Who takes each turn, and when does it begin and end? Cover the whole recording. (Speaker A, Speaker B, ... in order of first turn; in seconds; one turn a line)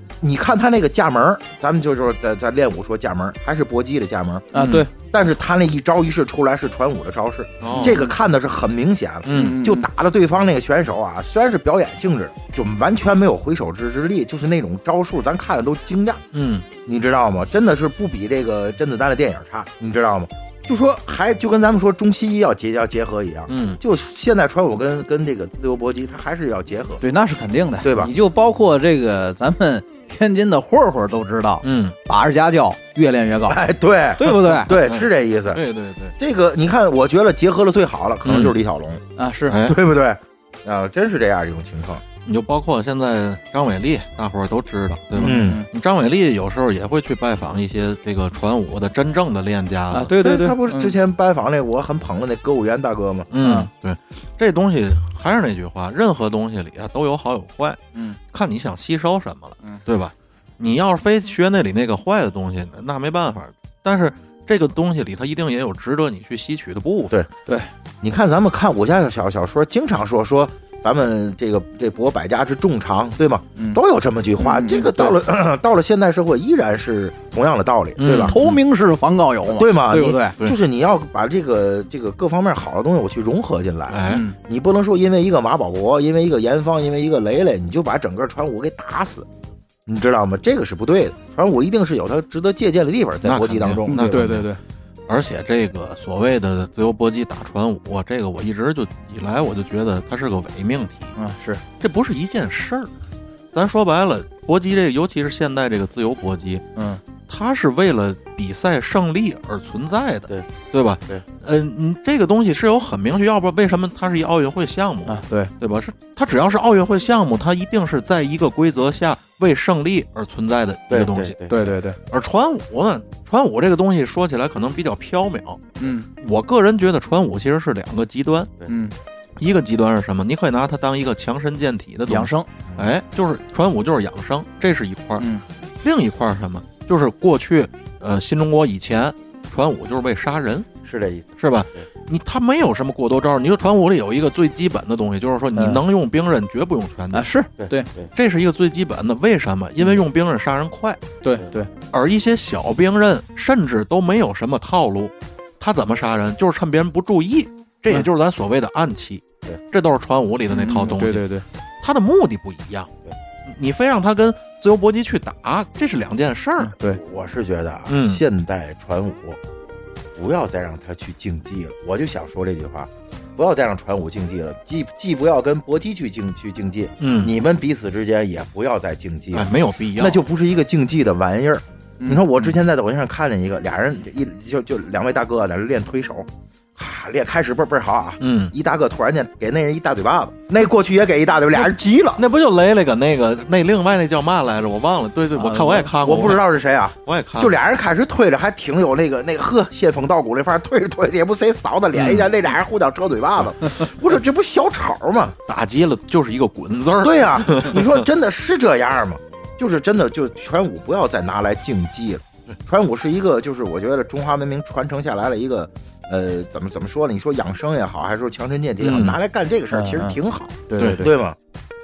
Speaker A: 0.2-4.5
Speaker B: 4.5-4.9
Speaker C: 4.5-4.8
Speaker A: 5.1-16.2
Speaker C: 7.6-8.0
Speaker B: 7.7-8.1
Speaker C: 9.2-9.6
Speaker B: 9.3-9.9
Speaker C: 16.3-16.6
Speaker A: 16.8-27.0
Speaker C: 23.5-23.8
Speaker B: 27.0-34.8
Speaker A: 27.8-28.1
Speaker C: 31.6-32.0
Speaker A: 33.5-35.6
Speaker C: 34.7-36.1
Speaker A: 36.2-39.0
Speaker C: 38.2-38.6
Speaker B: 39.2-39.6
Speaker C: 39.5-39.8
Speaker A: 39.6-42.0
Speaker C: 42.2-50.1
Speaker A: 45.1-45.6
Speaker B: 45.2-45.7
Speaker B: 49.9-51.0
Speaker A: 50.1-53.3
Speaker C: 53.3-57.8
Speaker B: 53.4-53.7
Speaker C: 58.3-67.1
Speaker A: 68.0-78.4
Speaker B: 73.5-73.8
Speaker B: 74.4-75.2
Speaker C: 78.0-78.6
Speaker B: 78.2-80.4
Speaker A: 79.5-89.3
Speaker C: 83.9-84.2
Speaker B: 84.1-84.4
Speaker A: 89.8-94.3
Speaker C: 93.2-94.5
Speaker B: 93.9-94.6
Speaker C: 95.1-101.1
Speaker B: 101.2-101.6
Speaker C: 101.8-102.9
Speaker C: 103.5-106.7
Speaker B: 106.8-107.0
Speaker C: 107.3-121.4
Speaker B: 115.1-115.5
Speaker A: 120.9-121.7
Speaker B: 121.5-122.0
Speaker C: 122.1-125.6
Speaker B: 125.8-126.1
Speaker C: 126.2-128.5
Speaker B: 128.7-128.9
Speaker C: 129.4-135.3
Speaker B: 132.1-132.5
Speaker B: 135.2-135.4
Speaker C: 135.8-140.7
Speaker A: 140.8-141.8
Speaker C: 141.4-147.3
Speaker B: 145.6-145.8
Speaker B: 147.1-147.9
Speaker A: 147.6-148.1
Speaker C: 148.1-151.0
Speaker B: 151.2-151.7
Speaker C: 151.9-161.2
Speaker B: 160.5-161.4
Speaker C: 161.8-162.9
Speaker C: 163.4-166.7
Speaker B: 166.6-167.0
Speaker A: 166.8-169.4
Speaker C: 167.9-168.2
Speaker A: 170.1-192.2
Speaker C: 177.0-177.3
Speaker C: 179.3-180.2
Speaker C: 188.2-188.5
Speaker C: 191.6-196.5
Speaker B: 195.3-195.9
Speaker A: 196.0-205.3
Speaker C: 197.0-197.5
Speaker C: 201.9-202.2
Speaker C: 205.5-208.0
Speaker A: 207.0-221.4
Speaker C: 218.8-219.2
Speaker B: 219.7-220.2
Speaker B: 220.7-221.1
Speaker C: 220.8-221.1